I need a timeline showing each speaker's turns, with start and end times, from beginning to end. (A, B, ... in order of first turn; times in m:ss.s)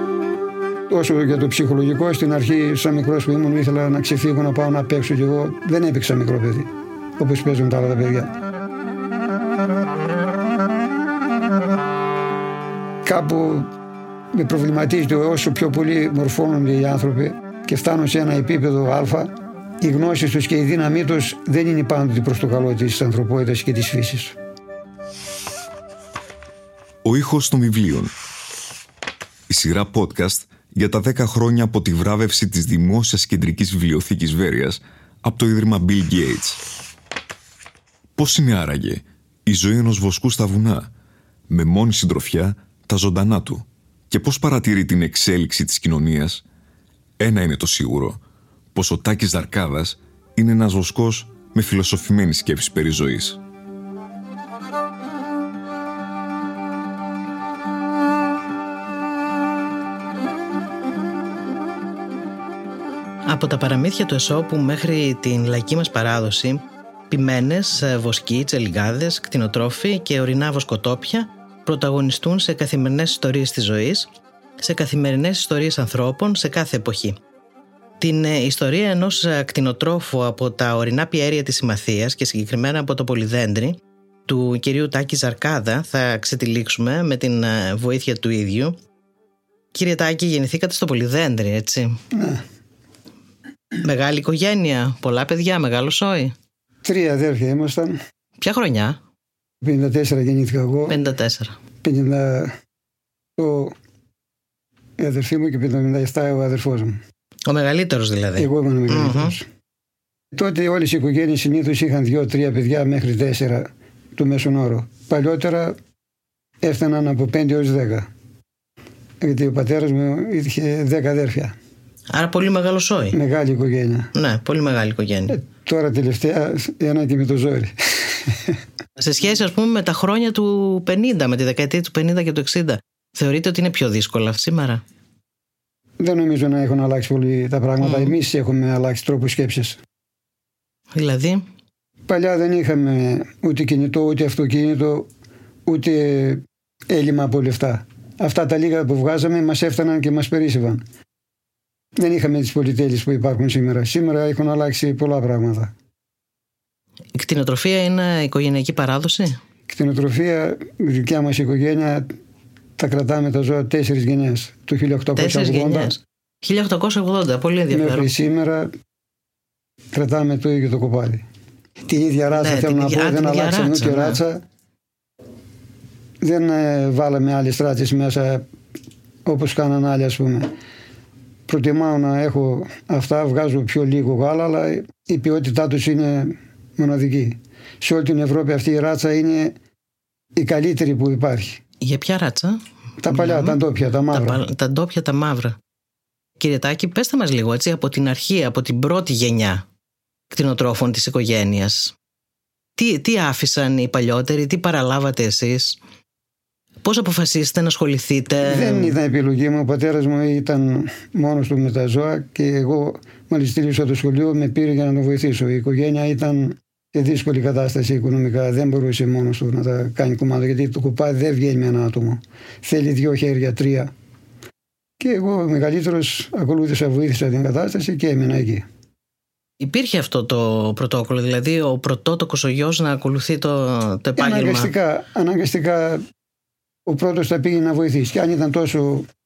0:00.9-0:08.3 A
0:13.0-0:13.7 A
0:14.3-0:24.4 A
0:27.0-0:28.1 B
0:29.5-0:36.6 B
0:38.2-0:40.9 B
0:41.5-0:46.4 B
0:47.2-0:48.2 B
0:48.8-0:53.4 B
1:03.2-1:17.2 C
1:18.0-1:28.8 C
1:29.7-1:32.0 C
1:32.1-1:32.4 A
1:33.8-1:36.3 C
1:36.8-1:38.0 A
1:38.4-1:39.0 C
1:39.6-1:41.0 A
1:40.9-1:41.6 C
1:41.8-1:42.6 A
1:43.4-1:43.8 A
1:45.0-1:47.0 A
1:47.5-1:49.3 C
1:48.4-1:49.5 A
1:50.3-1:55.8 A
1:56.6-1:58.1 A
1:59.2-2:01.6 A
2:02.1-2:03.2 C
2:03.1-2:04.1 A
2:04.2-2:05.4 C
2:05.3-2:08.6 A
2:09.0-2:14.8 C
2:16.0-2:19.8 A
2:17.8-2:18.2 C
2:20.9-2:21.4 C
2:22.1-2:25.1 A
2:25.7-2:30.8 A
2:32.0-2:35.7 A
2:37.2-2:39.4 C
2:39.7-2:42.1 A
2:42.8-2:46.0 A
2:45.2-2:48.1 C
2:47.7-2:48.7 A
2:49.9-2:51.2 A
2:51.9-2:54.4 A
2:52.3-2:54.2 C
2:56.2-2:58.5 A
2:59.2-3:00.5 A
3:01.5-3:09.6 A
3:10.4-3:11.6 A
3:11.8-3:13.6 C
3:13.0-3:14.4 A
3:14.1-3:15.6 C
3:16.4-3:19.7 C
3:20.3-3:22.0 C
3:22.8-3:25.8 C
3:26.8-3:29.0 C
3:28.4-3:43.9 A
3:45.0-3:48.6 A
3:49.6-3:54.7 C
3:54.2-3:56.0 A
3:56.9-3:59.1 A